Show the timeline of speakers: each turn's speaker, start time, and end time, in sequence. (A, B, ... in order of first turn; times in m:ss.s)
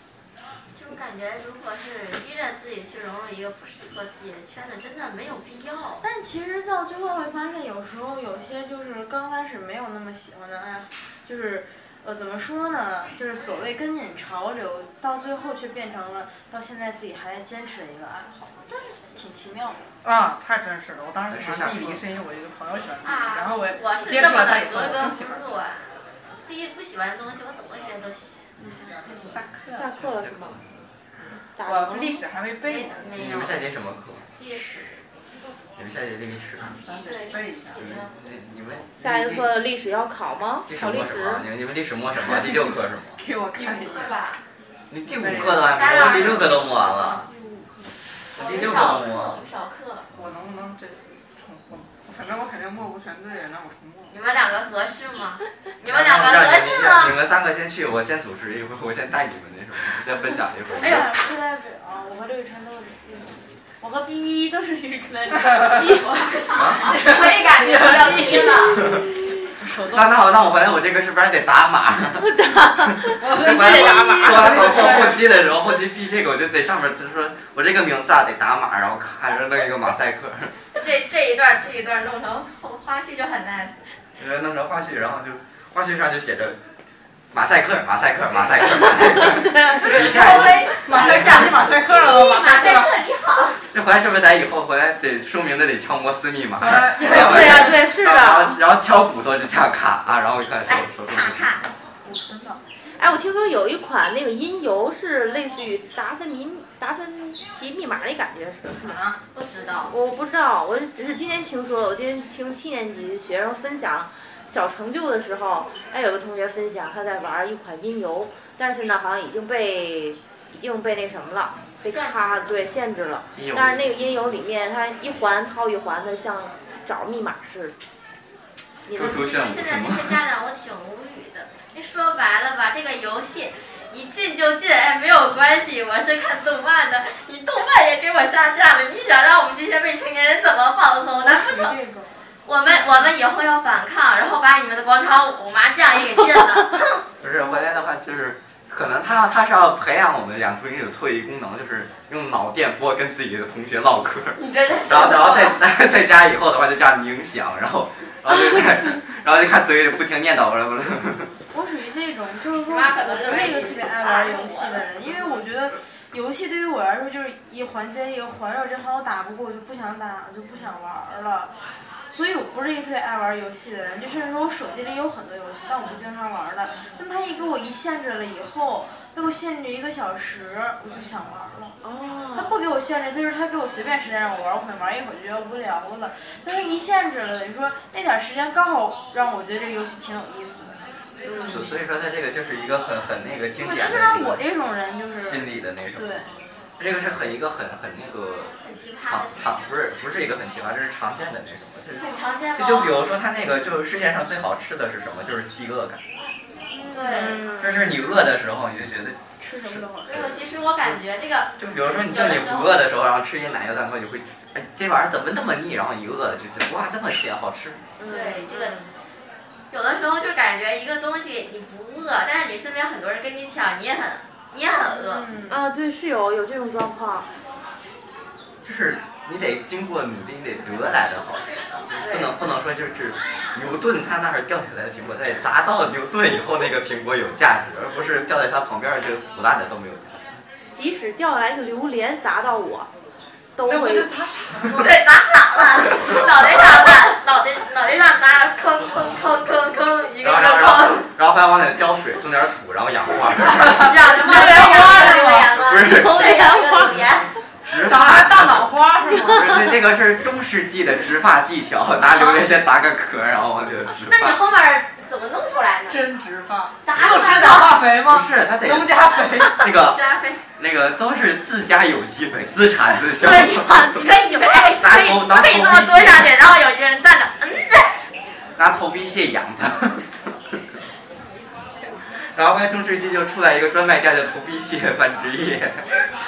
0:00.7-0:06.0 A
0:06.0-0:19.9 B
0:20.0-0:25.6 C
0:21.3-0:22.0 D
0:23.0-0:28.5 A
0:28.6-0:29.4 B
0:29.1-0:30.1 C
0:29.7-0:30.6 E
0:31.5-0:32.2 E
0:31.6-0:33.1 C
0:32.6-0:33.6 A
0:33.2-0:34.2 D
0:34.3-0:35.0 A
0:35.8-0:36.7 D
0:36.8-0:37.8 C
0:37.0-0:38.1 A
0:37.8-0:39.5 D
0:39.0-0:41.4 E
0:40.6-0:43.2 D
0:42.2-0:44.1 C
0:43.6-0:44.4 A
0:44.9-0:47.2 D
0:45.1-0:46.4 C
0:45.6-0:47.2 A
0:47.3-0:47.9 B
0:48.3-0:49.4 D
0:48.3-0:50.1 A
0:50.1-0:54.1 C
0:54.1-0:57.1 A
0:55.8-1:01.1 D
1:00.7-1:06.0 B
1:05.3-1:06.0 C
1:05.6-1:08.9 A
1:06.5-1:07.0 D
1:06.7-1:08.8 C
1:08.0-1:10.2 B
1:08.8-1:09.0 D
1:09.8-1:20.5 D
1:12.2-1:15.1 E
1:13.2-1:15.3 C
1:20.8-1:23.8 A
1:24.2-1:26.6 D
1:27.3-1:31.7 D
1:29.3-1:29.9 E
1:29.7-1:32.9 C
1:29.8-1:33.6 A
1:33.7-1:41.4 D
1:36.6-1:37.9 C
1:37.0-1:38.6 E
1:40.7-1:41.6 A
1:42.0-1:42.6 B
1:43.0-1:49.0 E
1:48.8-1:49.9 A
1:49.9-2:07.7 E
2:01.8-2:02.5 A
2:03.3-2:03.9 D
2:08.8-2:09.3 E
2:08.9-2:10.2 D
2:09.0-2:21.8 A
2:21.2-2:23.1 B
2:22.4-2:27.0 A
2:27.2-2:41.3 D
2:34.4-2:35.6 A
2:41.5-2:51.5 B
2:42.7-2:44.9 A
2:52.1-3:01.8 B
3:01.8-3:02.5 E
3:02.3-3:10.8 B
3:11.2-3:11.7 E
3:11.3-3:11.7 B
3:11.5-3:14.4 D
3:13.6-3:16.3 B
3:15.2-3:16.2 D
3:16.8-3:18.5 D
3:18.6-3:19.7 A
3:19.0-3:22.0 D
3:22.0-3:23.2 A
3:22.5-3:26.0 D
3:26.7-3:27.4 B
3:26.9-3:27.4 A
3:27.1-3:27.8 E
3:27.6-3:30.4 D
3:29.4-3:30.1 B
3:30.0-3:31.5 A
3:31.6-3:37.8 D
3:32.1-3:32.8 A
3:38.0-3:38.9 E
3:38.1-3:38.8 A
3:39.7-3:45.3 A
3:44.8-3:45.6 B
3:45.5-3:47.2 E
3:48.6-4:00.2 D
3:51.5-3:52.4 A
4:00.7-4:02.9 E
4:03.5-4:04.1 E
4:03.6-4:05.0 C
4:04.7-4:11.1 A
4:10.2-4:14.0 D
4:13.6-4:15.5 C
4:13.7-4:17.3 A
4:14.3-4:15.2 E
4:15.5-4:16.3 D
4:15.8-4:17.0 E
4:17.6-4:18.7 D
4:17.7-4:19.7 C
4:19.2-4:24.4 D
4:22.0-4:22.4 C
4:24.1-4:26.0 A
4:25.9-4:29.7 C
4:26.8-4:27.8 A
4:28.0-4:28.9 D
4:29.5-4:30.0 D
4:29.8-4:30.4 A
4:30.6-4:34.0 D
4:33.1-4:38.1 A
4:33.5-4:34.7 E
4:34.8-4:36.4 D
4:38.6-4:40.5 D
4:42.3-4:45.9 D